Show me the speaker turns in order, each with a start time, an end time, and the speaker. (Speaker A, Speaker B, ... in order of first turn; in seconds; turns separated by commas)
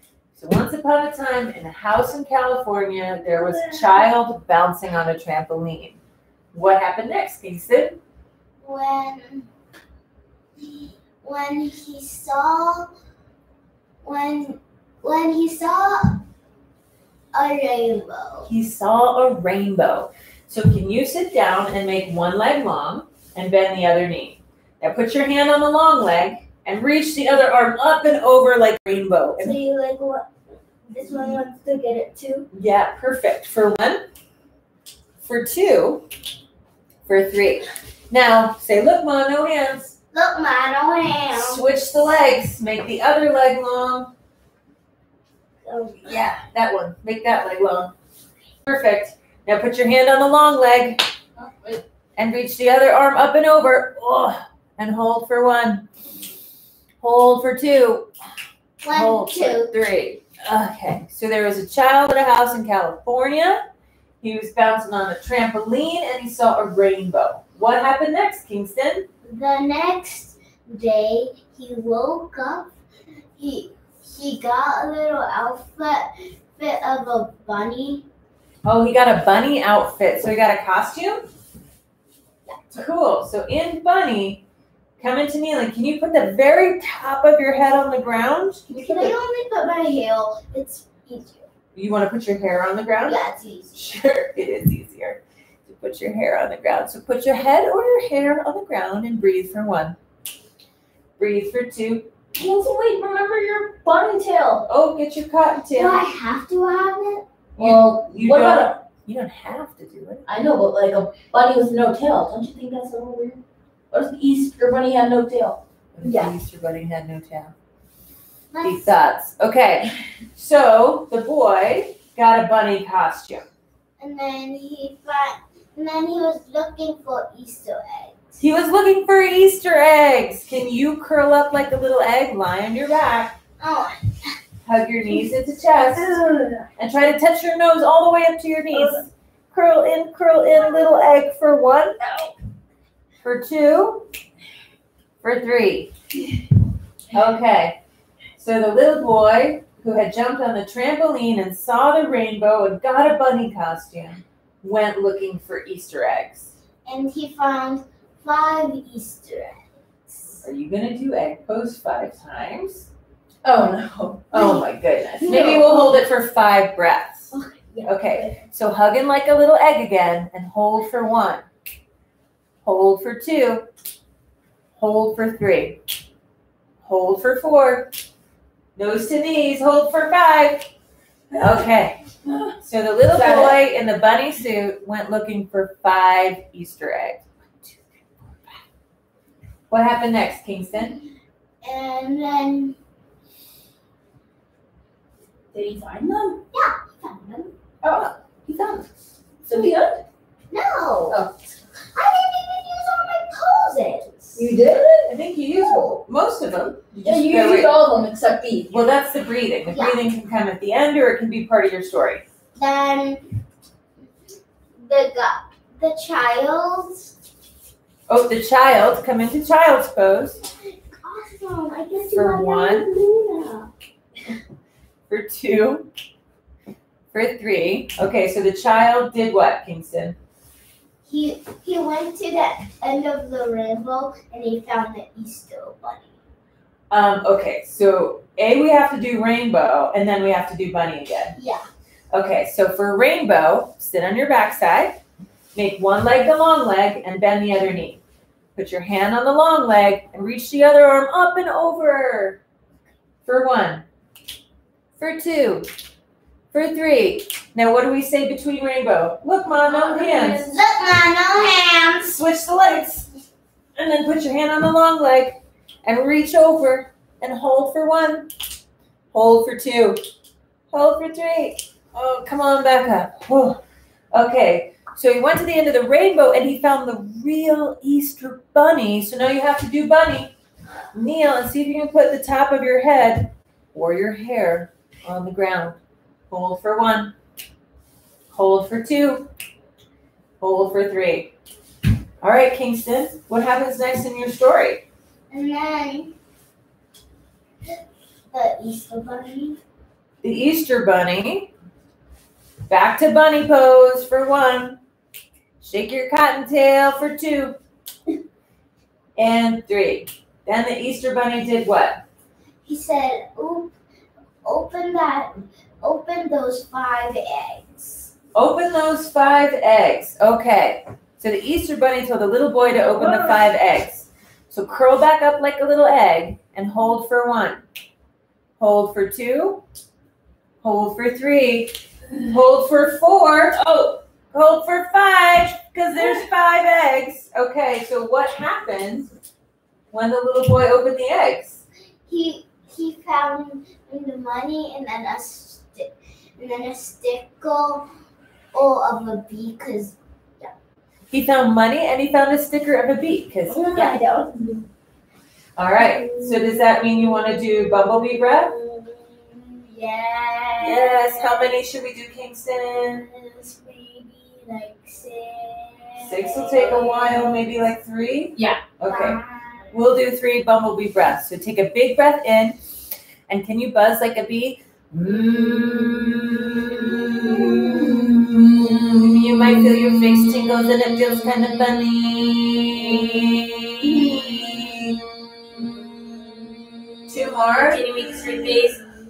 Speaker A: 0.3-6.0, Speaker B: 3.5-4.0, Speaker A: 6.5-8.0, Speaker B: 8.6-9.5, Speaker B: 11.2-12.9, Speaker B: 14.0-16.2, Speaker B: 17.3-18.5, Speaker A: 18.5-29.6, Speaker B: 29.4-30.4, Speaker B: 30.9-32.5, Speaker A: 32.5-34.0, Speaker A: 35.2-36.0, Speaker A: 37.1-39.9, Speaker B: 40.1-41.6, Speaker A: 41.3-44.1, Speaker B: 45.6-46.2, Speaker A: 46.0-47.9, Speaker A: 48.6-51.0, Speaker C: 51.4-51.8, Speaker A: 52.2-55.9, Speaker A: 57.0-58.1, Speaker B: 58.8-59.7, Speaker A: 58.9-63.6, Speaker A: 64.2-69.0, Speaker B: 69.2-72.7, Speaker B: 73.4-78.0, Speaker A: 78.6-81.2, Speaker B: 82.5-82.9, Speaker A: 82.8-84.4, Speaker A: 85.0-88.7, Speaker B: 88.7-91.5, Speaker A: 91.8-93.2, Speaker B: 93.0-93.8, Speaker A: 93.7-100.0, Speaker A: 101.2-102.1, Speaker C: 102.3-104.7, Speaker A: 104.7-106.1, Speaker B: 105.7-107.2, Speaker C: 107.6-108.7, Speaker A: 107.6-110.2, Speaker C: 110.3-115.6, Speaker A: 115.9-117.5, Speaker B: 116.0-116.3, Speaker B: 118.5-119.0, Speaker A: 118.6-123.4, Speaker B: 124.0-128.3, Speaker A: 128.4-133.4, Speaker B: 133.6-134.4, Speaker A: 134.7-136.2, Speaker C: 135.7-136.7, Speaker A: 136.8-142.0, Speaker C: 138.7-139.0, Speaker C: 142.0-142.3, Speaker A: 143.2-144.1, Speaker A: 145.2-145.9, Speaker A: 147.1-147.8, Speaker A: 148.4-156.5, Speaker B: 156.8-160.4, Speaker A: 160.4-162.9, Speaker C: 163.4-164.6, Speaker A: 164.3-167.3, Speaker B: 164.3-164.6, Speaker B: 165.2-165.9, Speaker C: 165.2-165.6, Speaker B: 167.3-168.4, Speaker A: 167.8-171.4, Speaker A: 172.6-173.7, Speaker A: 174.8-175.8, Speaker A: 176.8-177.9, Speaker A: 178.8-180.7, Speaker C: 181.3-181.6, Speaker A: 181.4-182.0, Speaker C: 182.2-182.5, Speaker A: 182.6-187.3, Speaker C: 183.1-183.6, Speaker A: 189.7-191.0, Speaker B: 191.6-192.8, Speaker C: 195.5-196.4, Speaker B: 196.5-197.5, Speaker C: 197.8-198.1, Speaker A: 197.9-198.9, Speaker C: 199.4-200.0, Speaker B: 200.5-201.2, Speaker B: 201.9-204.5, Speaker C: 204.4-205.1, Speaker A: 204.6-207.8, Speaker C: 207.0-208.8, Speaker A: 208.7-212.2, Speaker B: 209.7-210.1, Speaker B: 212.5-213.2, Speaker B: 214.8-217.1, Speaker A: 218.1-220.4, Speaker B: 220.7-223.7, Speaker A: 222.1-222.9, Speaker A: 225.1-225.9, Speaker A: 227.1-230.2, Speaker B: 231.1-236.2, Speaker A: 236.9-241.3, Speaker B: 241.3-241.7, Speaker A: 242.1-245.0, Speaker A: 245.5-248.0, Speaker A: 248.6-252.4, Speaker A: 253.2-253.8, Speaker A: 255.0-255.7, Speaker A: 256.5-260.5, Speaker C: 259.6-260.7, Speaker B: 260.5-262.2, Speaker A: 262.0-263.1, Speaker A: 263.8-268.3, Speaker A: 269.1-270.0, Speaker A: 270.7-273.6, Speaker A: 274.1-280.3, Speaker A: 280.9-285.8, Speaker A: 286.3-287.1, Speaker A: 288.3-289.3, Speaker A: 290.4-291.3, Speaker A: 292.2-294.8, Speaker B: 295.3-296.1, Speaker B: 298.3-299.6, Speaker A: 300.2-301.5, Speaker A: 302.7-304.8, Speaker A: 305.6-307.6, Speaker A: 309.2-312.0, Speaker B: 312.6-313.7, Speaker B: 314.4-318.1, Speaker A: 318.3-327.6, Speaker C: 322.8-323.4, Speaker A: 328.6-329.6, Speaker A: 330.6-339.1, Speaker A: 339.9-341.6, Speaker B: 342.1-347.9, Speaker B: 348.5-350.5, Speaker A: 351.1-354.0, Speaker B: 353.5-354.7, Speaker A: 355.6-358.5, Speaker B: 355.8-361.6, Speaker A: 360.6-363.1, Speaker B: 362.9-367.3, Speaker A: 366.0-369.2, Speaker C: 368.4-368.6, Speaker B: 368.8-369.7, Speaker A: 369.7-372.6, Speaker A: 373.3-385.0, Speaker B: 375.0-378.1, Speaker A: 387.1-388.5, Speaker C: 387.6-388.9